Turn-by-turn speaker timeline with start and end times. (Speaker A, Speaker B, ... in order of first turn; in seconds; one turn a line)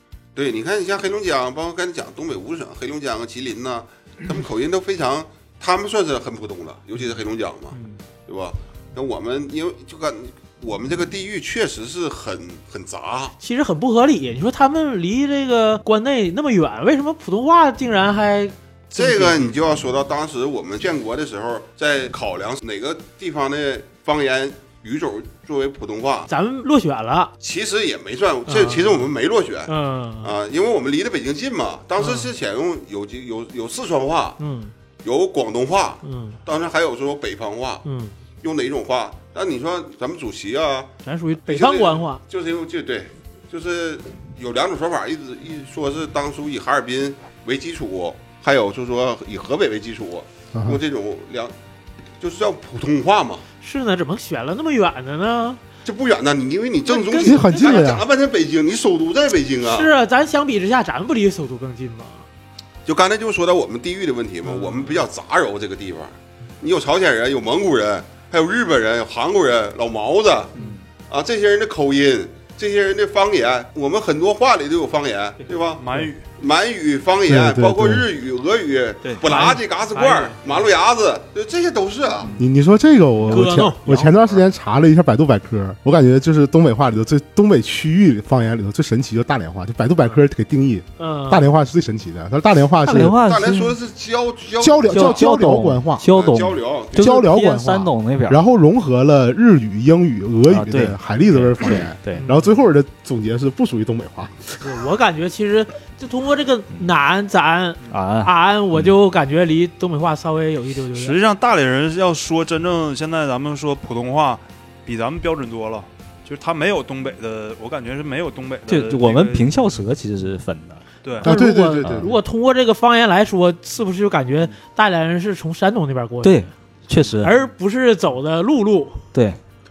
Speaker A: 0.4-7.8
Speaker B: 7.7-8.0
Speaker A: 8.3-13.3
Speaker B: 13.4-19.5
Speaker A: 18.9-26.3
Speaker B: 26.3-27.3
Speaker A: 27.4-34.4
Speaker B: 28.5-29.1
Speaker B: 29.7-30.3
Speaker B: 32.0-32.3
Speaker B: 34.4-34.7
Speaker A: 35.0-37.9
Speaker B: 36.0-36.4
Speaker B: 37.8-38.1
Speaker A: 38.4-40.9
Speaker B: 41.0-42.2
Speaker A: 41.4-51.5
Speaker C: 50.5-50.8
Speaker A: 52.2-53.5
Speaker B: 53.6-55.6
Speaker A: 55.9-59.9
Speaker B: 56.9-58.0
Speaker C: 57.2-58.1
Speaker B: 59.6-62.3
Speaker A: 62.9-70.5
Speaker B: 64.5-65.0
Speaker A: 71.1-82.4
Speaker D: 75.8-76.2
Speaker C: 77.3-78.1
Speaker B: 79.2-80.7
Speaker C: 82.4-93.2
Speaker B: 83.3-84.1
Speaker B: 91.0-91.5
Speaker E: 92.8-93.8
Speaker A: 93.2-95.3
Speaker C: 94.6-96.0
Speaker E: 94.9-98.4
Speaker A: 96.1-97.1
Speaker C: 96.9-104.5
Speaker E: 100.5-102.3
Speaker B: 102.1-102.5
Speaker B: 104.6-111.2
Speaker E: 107.9-108.9
Speaker D: 110.9-119.5
Speaker E: 118.7-120.8
Speaker D: 121.0-121.3
Speaker C: 121.2-122.1
Speaker B: 121.2-126.5
Speaker E: 121.8-122.1
Speaker E: 126.2-127.3
Speaker B: 127.2-129.0
Speaker E: 129.1-129.4